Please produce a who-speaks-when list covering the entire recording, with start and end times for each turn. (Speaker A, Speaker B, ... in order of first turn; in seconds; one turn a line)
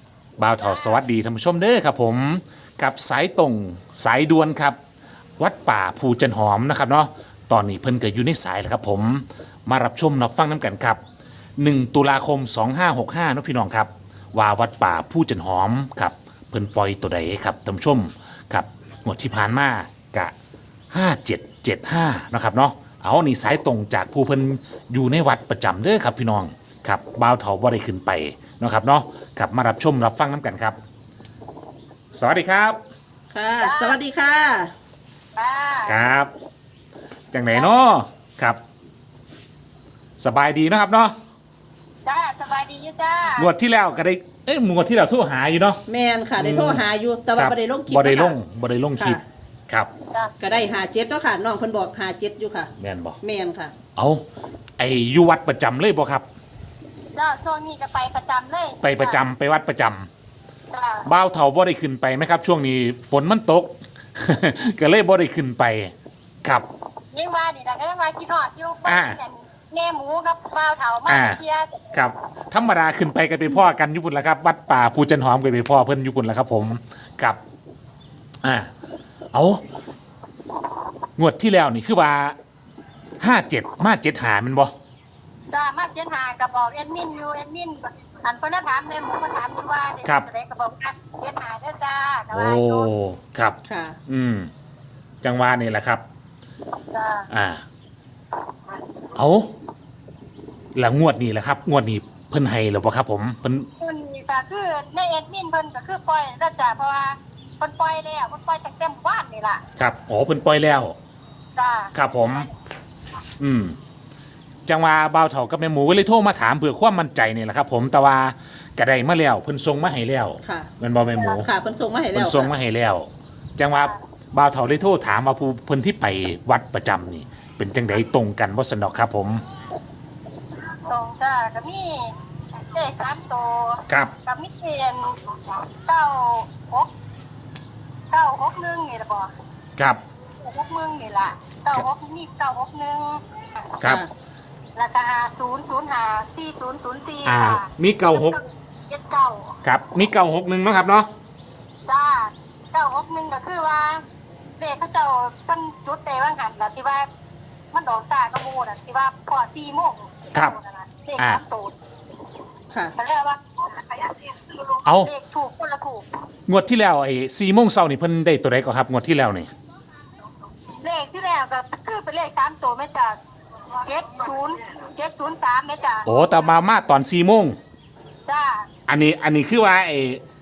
Speaker A: 0.4-4.8
Speaker B: 0.7-0.9
Speaker A: 5.4-11.0
Speaker A: 11.6-20.3
Speaker A: 20.9-30.8
Speaker A: 32.1-32.8
Speaker C: 33.3-34.7
Speaker B: 33.6-34.0
Speaker B: 35.4-36.0
Speaker A: 35.8-36.3
Speaker A: 37.3-38.6
Speaker A: 40.2-41.2
Speaker B: 42.0-43.5
Speaker A: 43.4-45.8
Speaker C: 45.9-48.4
Speaker A: 46.4-49.9
Speaker C: 49.0-49.2
Speaker C: 50.4-53.7
Speaker A: 52.8-53.2
Speaker A: 54.0-54.2
Speaker A: 54.8-56.2
Speaker B: 57.1-59.2
Speaker A: 58.8-60.1
Speaker B: 60.7-61.1
Speaker A: 61.0-65.9
Speaker B: 67.1-71.9
Speaker A: 68.8-69.2
Speaker A: 71.1-71.4
Speaker A: 71.9-77.4
Speaker A: 78.4-78.7
Speaker A: 79.3-79.6
Speaker A: 81.2-82.4
Speaker A: 83.2-84.7
Speaker B: 85.5-92.9
Speaker A: 92.3-94.5
Speaker C: 93.7-94.0
Speaker A: 95.2-96.0
Speaker B: 96.9-97.3
Speaker A: 97.3-97.6
Speaker A: 99.1-99.5
Speaker A: 100.8-103.7
Speaker B: 103.8-109.6
Speaker A: 109.8-110.9
Speaker B: 111.5-112.5
Speaker A: 111.9-112.5
Speaker A: 113.4-113.8
Speaker A: 114.7-121.5
Speaker C: 120.4-120.7
Speaker B: 121.2-121.4
Speaker C: 121.4-122.5
Speaker A: 122.1-129.4
Speaker B: 123.7-124.0
Speaker B: 130.8-136.9
Speaker A: 133.9-134.1
Speaker B: 138.1-139.3
Speaker B: 140.4-143.8
Speaker B: 144.8-149.6
Speaker A: 147.2-148.4
Speaker A: 149.6-151.1
Speaker B: 151.9-154.1
Speaker B: 154.6-157.1
Speaker B: 157.7-161.8
Speaker B: 163.0-166.1
Speaker A: 164.8-165.1
Speaker A: 166.5-169.5
Speaker B: 170.8-173.2
Speaker B: 173.8-176.1
Speaker A: 176.1-177.6
Speaker B: 178.3-178.7
Speaker A: 178.9-180.2